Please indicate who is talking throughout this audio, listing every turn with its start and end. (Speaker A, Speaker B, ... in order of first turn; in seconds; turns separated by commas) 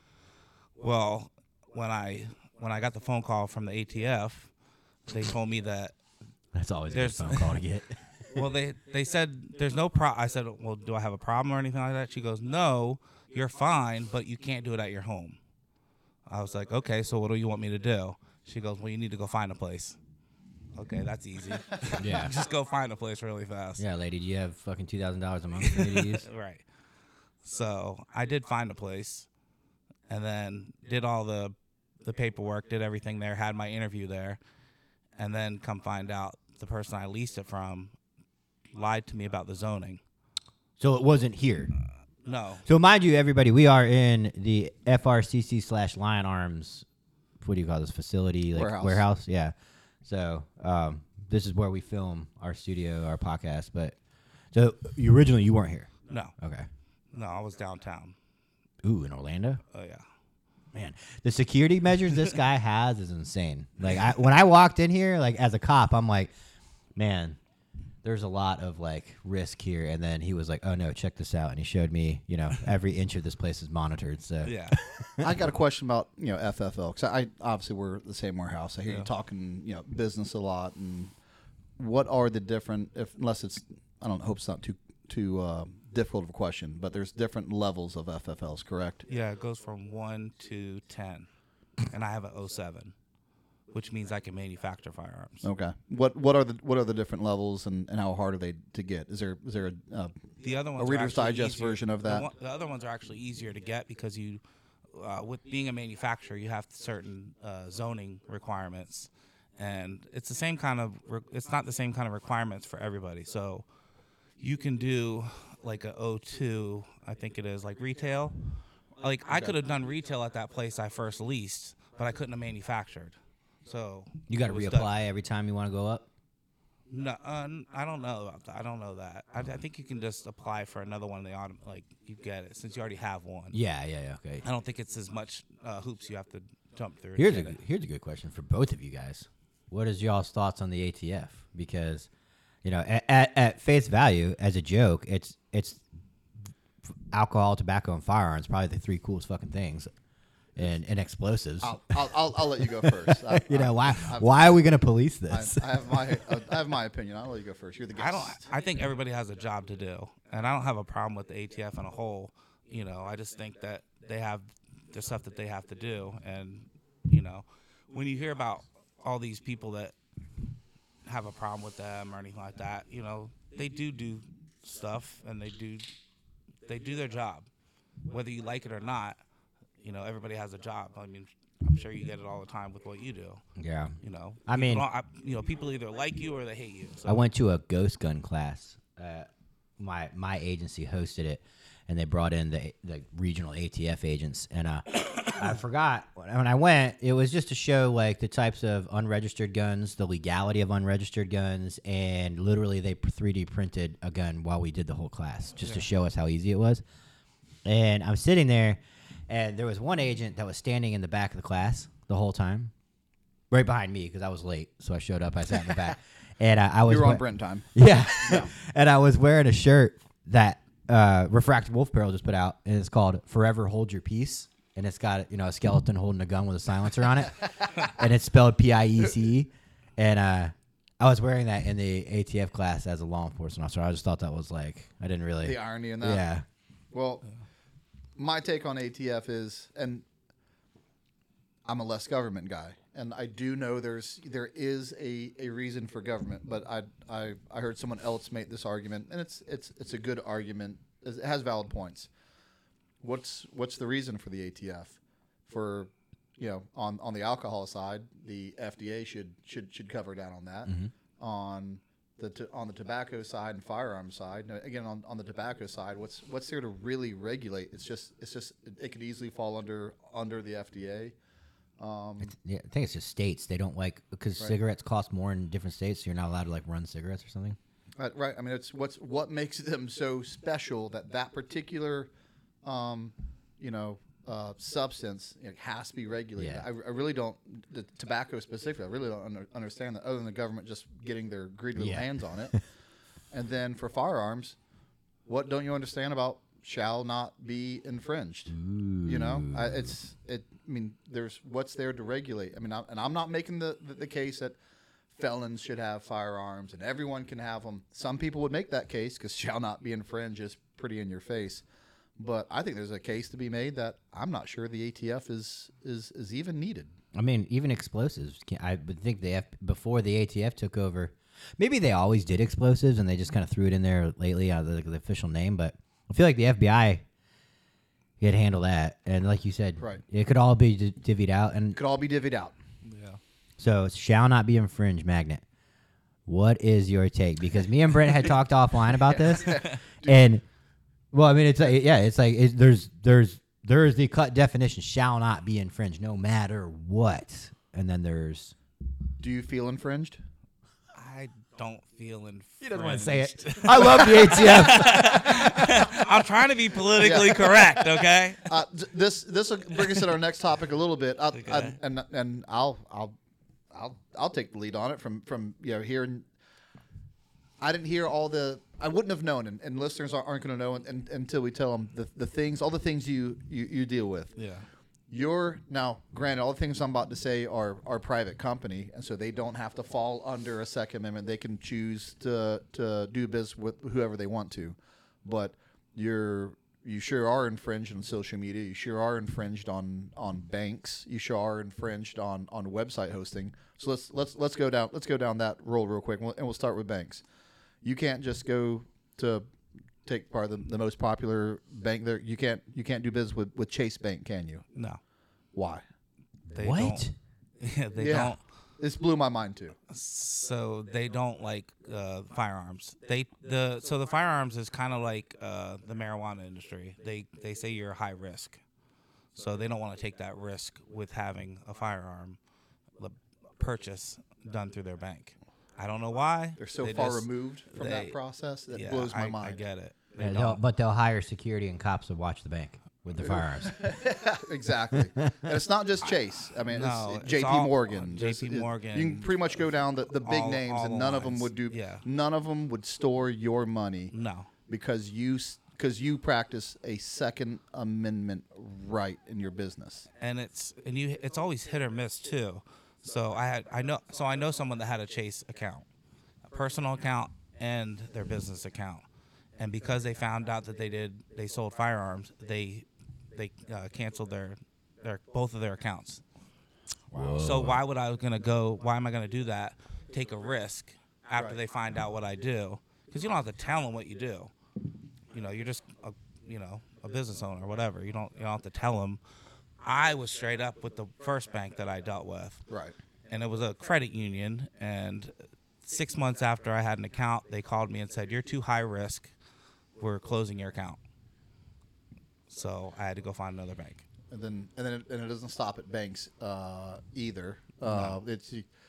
Speaker A: 0.8-4.5, Speaker A: 5.1-6.0, Speaker B: 6.5-8.4, Speaker A: 6.9-7.6, Speaker A: 8.3-15.4, Speaker A: 16.3-20.0, Speaker A: 20.7-23.8, Speaker B: 22.0-22.3, Speaker B: 23.8-26.2, Speaker A: 25.6-26.6, Speaker A: 27.4-29.3, Speaker A: 30.1-34.4, Speaker A: 35.2-37.9, Speaker A: 38.7-40.0, Speaker B: 40.8-41.7, Speaker A: 42.2-42.6, Speaker B: 42.6-46.9, Speaker B: 47.4-54.0, Speaker C: 48.5-49.0, Speaker B: 54.5-56.7, Speaker A: 56.1-56.3, Speaker A: 57.1-58.1, Speaker B: 58.8-59.6, Speaker A: 59.7-60.0, Speaker B: 60.7-66.3, Speaker A: 63.8-64.1, Speaker B: 67.0-67.4, Speaker B: 68.0-75.3, Speaker A: 74.4-74.8, Speaker C: 75.2-81.1, Speaker C: 81.8-89.0, Speaker A: 89.1-91.3, Speaker A: 91.8-92.9, Speaker A: 93.7-95.5, Speaker C: 95.4-100.1, Speaker A: 100.4-104.4, Speaker C: 100.8-102.3, Speaker A: 104.9-113.6, Speaker A: 114.4-118.3, Speaker A: 119.0-124.9, Speaker B: 124.3-126.1, Speaker A: 126.9-133.6, Speaker B: 133.5-134.4, Speaker A: 134.4-137.6, Speaker B: 137.2-142.1, Speaker B: 142.6-145.8, Speaker B: 147.1-149.9, Speaker B: 150.6-155.9, Speaker C: 151.6-154.4, Speaker C: 155.3-158.4, Speaker A: 157.9-169.9, Speaker A: 171.0-175.9, Speaker A: 176.7-177.5, Speaker A: 178.1-179.2, Speaker A: 179.8-183.4, Speaker B: 183.6-184.8, Speaker A: 184.0-187.2, Speaker B: 187.1-189.3, Speaker B: 189.8-206.8, Speaker B: 207.6-212.7, Speaker B: 213.5-217.2, Speaker C: 216.9-217.7, Speaker B: 217.7-236.4, Speaker C: 218.2-218.5, Speaker C: 235.4-236.2, Speaker C: 236.9-237.2, Speaker C: 238.2-240.0, Speaker C: 241.6-252.1, Speaker C: 253.0-271.1, Speaker B: 260.6-260.9, Speaker C: 271.8-272.3, Speaker B: 272.2-277.6, Speaker C: 278.0-282.1, Speaker C: 282.6-292.6, Speaker B: 286.4-286.6, Speaker B: 291.8-292.6, Speaker C: 293.3-294.6, Speaker C: 295.2-304.6, Speaker B: 298.5-299.9, Speaker C: 305.1-311.6, Speaker C: 312.2-316.9, Speaker B: 317.1-327.0, Speaker B: 328.2-331.8, Speaker C: 331.7-332.6, Speaker A: 332.8-333.2, Speaker B: 333.6-335.4, Speaker B: 336.2-340.4, Speaker C: 339.0-340.3, Speaker A: 339.4-339.7, Speaker B: 341.1-348.5, Speaker C: 349.2-350.2, Speaker A: 350.9-358.4, Speaker B: 352.6-355.4, Speaker C: 357.0-363.2, Speaker A: 361.3-361.7, Speaker C: 363.7-366.3, Speaker C: 367.6-374.3, Speaker A: 374.4-374.7, Speaker C: 375.1-397.2, Speaker C: 397.8-399.5, Speaker C: 400.0-404.6, Speaker C: 405.5-405.8, Speaker A: 406.5-407.1, Speaker B: 406.6-407.1, Speaker A: 407.6-408.4, Speaker C: 408.0-409.8, Speaker A: 409.9-418.6, Speaker A: 419.3-422.4, Speaker A: 423.0-428.1, Speaker C: 426.6-429.6, Speaker A: 428.7-430.6, Speaker B: 430.2-433.8, Speaker C: 433.2-444.1, Speaker A: 436.6-439.6, Speaker A: 440.2-442.0, Speaker A: 444.1-444.5, Speaker C: 444.7-450.1, Speaker A: 450.2-455.8, Speaker A: 456.4-459.0, Speaker A: 459.6-466.2, Speaker B: 467.1-467.8, Speaker A: 467.1-474.5, Speaker C: 471.3-471.6, Speaker A: 475.3-479.2, Speaker A: 479.8-482.6, Speaker A: 483.3-489.3, Speaker A: 490.0-491.0, Speaker A: 492.5-494.0, Speaker C: 494.3-498.6, Speaker A: 497.8-498.2